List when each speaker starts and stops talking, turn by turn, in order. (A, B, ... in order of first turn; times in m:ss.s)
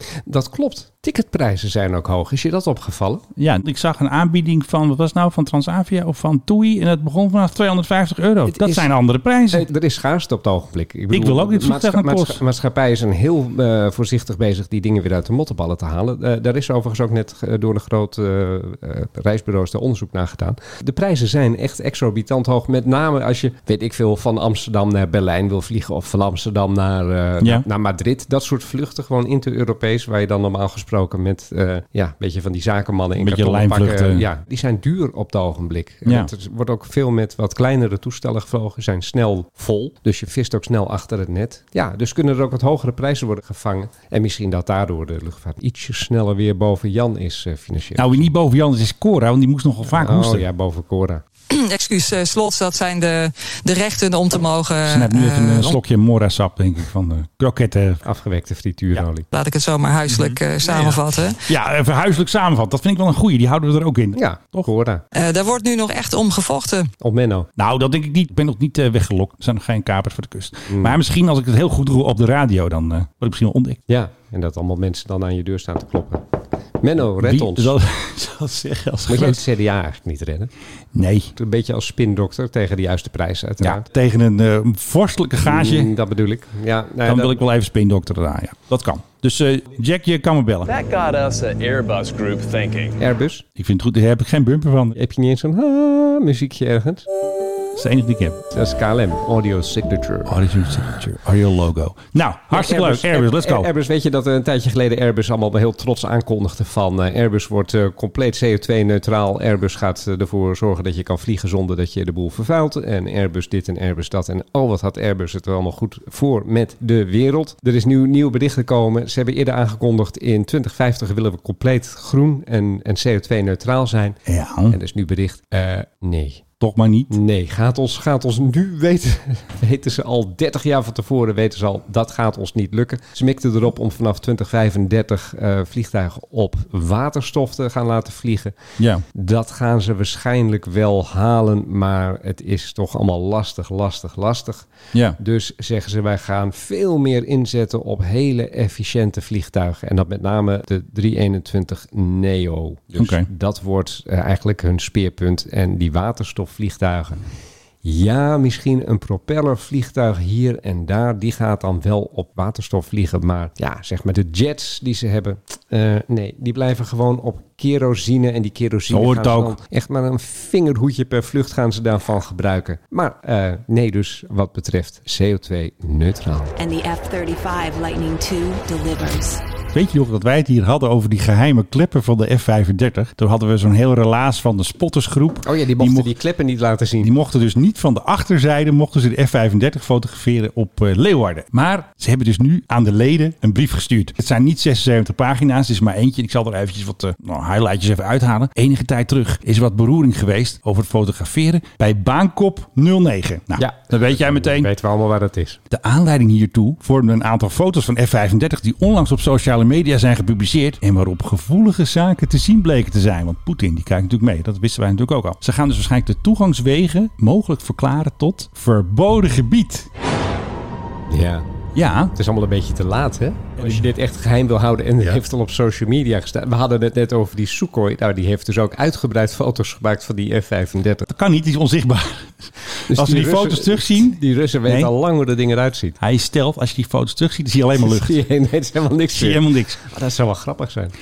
0:00.3-0:03.2 A
0:03.4-0:09.7 B
0:08.5-0:08.9 A
0:09.5-0:48.3 A
0:11.1-0:12.4 B
0:33.2-0:34.3 B
0:36.0-0:36.3 B
0:48.0-0:50.5 B
0:49.9-0:51.2 A
0:51.5-0:55.8 C
0:54.8-0:58.0 B
0:58.0-0:59.3 A
0:59.3-1:01.4 C
1:01.5-1:04.7 B
1:04.2-1:05.0 A
1:05.1-1:06.9 C
1:07.0-1:07.5 A
1:07.6-1:13.8 B
1:10.7-1:11.0 A
1:13.9-1:16.2 A
1:16.8-1:17.7 A
1:17.2-1:19.4 B
1:19.1-1:20.5 A
1:20.9-1:21.3 B
1:21.4-1:23.8 A
1:23.6-1:25.9 B
1:25.4-1:27.4 A
1:27.0-1:30.8 B
1:30.7-1:32.9 D
1:33.0-1:33.4 A
1:33.6-1:35.0 B
1:35.0-1:37.0 A
1:37.8-1:38.4 B
1:38.5-1:40.4 A
1:40.3-1:43.7 B
1:42.5-2:06.4 A
2:04.3-2:04.8 B
2:06.6-2:07.1 B
2:07.1-2:18.5 A
2:18.8-2:19.0 B
2:19.1-2:37.2 A
2:33.0-2:33.3 B
2:37.8-2:56.5 A
2:48.9-2:49.6 B
2:56.6-2:59.4 E
2:59.7-3:06.1 B
3:05.4-3:07.1 A
3:07.0-3:24.7 B
3:23.6-3:25.6 A
3:25.7-3:39.9 B
3:41.1-3:41.5 A
3:41.8-3:42.1 B
3:42.2-3:51.1 A
3:51.1-3:54.9 B
3:52.9-3:56.0 A
3:56.0-3:58.2 B
3:57.8-4:00.9 A
3:59.1-3:59.8 B